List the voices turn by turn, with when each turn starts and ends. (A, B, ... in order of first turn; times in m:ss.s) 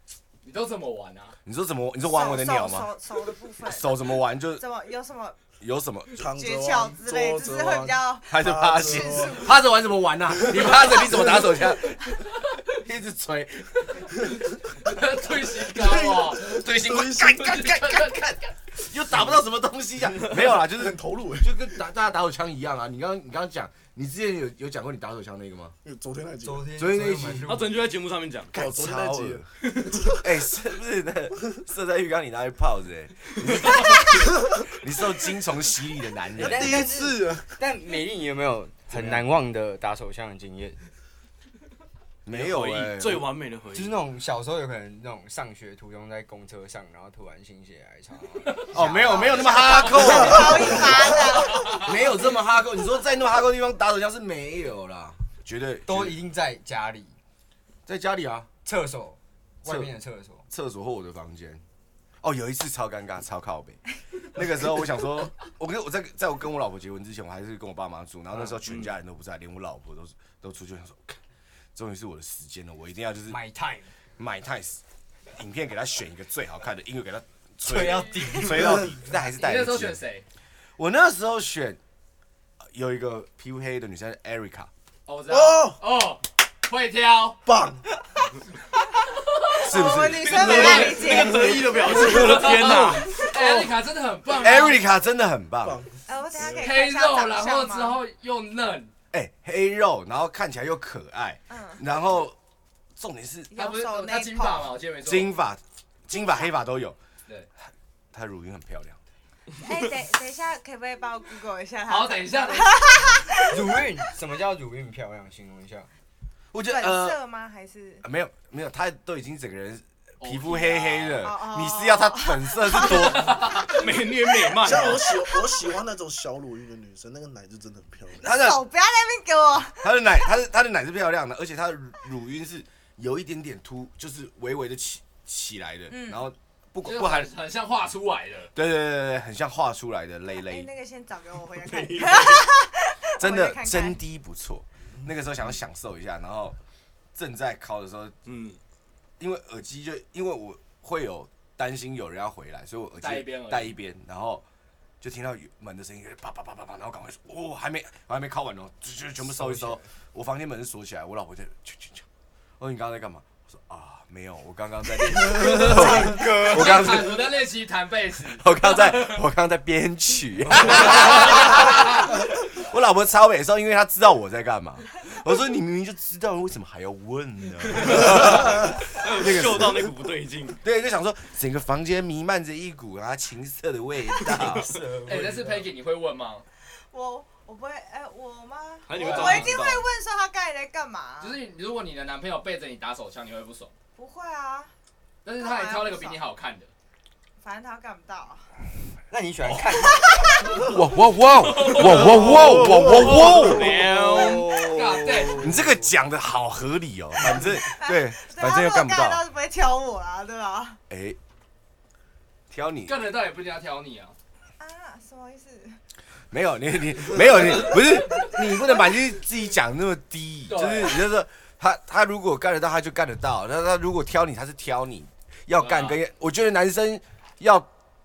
0:00.4-0:01.4 A
0:01.4-0:02.9 B
0:02.0-0:04.0 C
0:03.6-0:04.6 B
0:04.6-0:05.4 C
0:05.6-0:06.2 B
0:06.2-0:09.5 D
0:06.3-0:09.5 C
0:08.3-0:14.3 B
0:14.8-0:18.2 A
0:15.7-0:25.8 B
0:16.9-0:17.4 D
0:20.5-0:21.5 D
0:25.8-0:26.7 D
0:26.4-0:27.8 E
0:26.8-0:27.5 B
0:27.4-0:28.5 F
0:28.5-0:29.5 B
0:28.5-0:30.1 D
0:30.1-0:36.8 B
0:36.4-0:40.8 E
0:36.4-0:37.6 D
0:38.9-0:39.2 B
0:42.2-0:43.2 B
0:42.3-0:44.0 F
0:43.7-0:50.9 E
0:48.7-0:56.2 B
0:49.0-0:51.9 C
0:50.4-0:51.1 D
0:51.4-0:51.8 A
0:55.8-0:57.2 E
0:57.9-0:58.5 B
0:58.6-1:00.4 E
0:59.6-0:59.9 B
1:00.5-1:01.6 B
1:02.2-1:03.8 B
1:04.3-1:11.2 B
1:08.6-1:09.0 F
1:11.7-1:13.4 B
1:13.3-1:13.9 E
1:14.2-1:14.8 B
1:15.3-1:20.0 B
1:17.6-1:19.0 E
1:19.2-1:20.2 A
1:20.8-1:21.8 B
1:22.7-1:24.7 B
1:25.1-1:27.4 A
1:25.3-1:25.8 D
1:27.4-1:27.9 D
1:29.3-1:29.6 A
1:29.5-1:31.8 C
1:29.6-1:31.1 B
1:30.0-1:33.3 F
1:31.9-1:34.8 A
1:32.0-1:32.8 B
1:34.4-1:35.8 B
1:35.6-1:36.7 D
1:36.1-1:38.0 C
1:36.6-1:38.9 A
1:39.1-1:42.4 B
1:41.5-1:41.8 C
1:43.0-1:43.5 B
1:43.5-1:44.7 C
1:43.5-1:45.3 A
1:45.0-1:47.0 B
1:48.1-1:49.0 B
1:49.6-1:53.7 C
1:51.9-1:53.2 A
1:53.4-1:55.9 E
1:56.5-1:57.2 B
1:56.6-1:58.0 C
1:58.0-2:03.4 B
2:00.2-2:01.3 A
2:01.2-2:05.6 C
2:03.1-2:03.8 A
2:03.5-2:05.2 F
2:04.6-2:08.2 D
2:08.2-2:08.6 B
2:08.2-2:10.0 C
2:09.8-2:17.3 B
2:15.9-2:16.2 C
2:16.8-2:18.5 A
2:18.5-2:20.7 B
2:20.3-2:24.0 C
2:21.6-2:22.5 F
2:23.2-2:26.6 B
2:27.1-2:28.2 B
2:28.2-2:28.6 F
2:29.2-2:34.4 B
2:33.0-2:33.7 A
2:35.0-2:42.0 B
2:39.2-2:39.9 E
2:42.6-2:47.3 B
2:45.4-2:47.0 E
2:45.4-2:49.2 A
2:48.4-2:59.9 B
2:50.6-2:51.9 A
2:57.8-3:00.6 F
3:00.6-3:04.7 B
3:04.5-3:05.7 E
3:05.0-3:06.4 A
3:06.9-3:11.4 C
3:08.9-3:09.8 F
3:08.9-3:09.6 A
3:11.2-3:13.7 A
3:14.0-3:14.7 C
3:15.2-3:16.7 A
3:15.4-3:16.2 C
3:17.4-3:18.5 C
3:19.1-3:20.6 E
3:19.7-3:20.6 C
3:20.6-3:23.8 B
3:21.5-3:25.3 F
3:24.4-3:24.7 E
3:24.6-3:25.5 A
3:25.4-3:29.2 B
3:25.4-3:25.8 E
3:27.6-3:30.8 C
3:30.9-3:31.2 B
3:32.5-3:33.0 B
3:32.8-3:34.2 A
3:34.6-3:35.8 C
3:36.3-3:47.7 B
3:37.7-3:38.3 C
3:40.5-3:41.0 A
3:45.6-3:46.0 A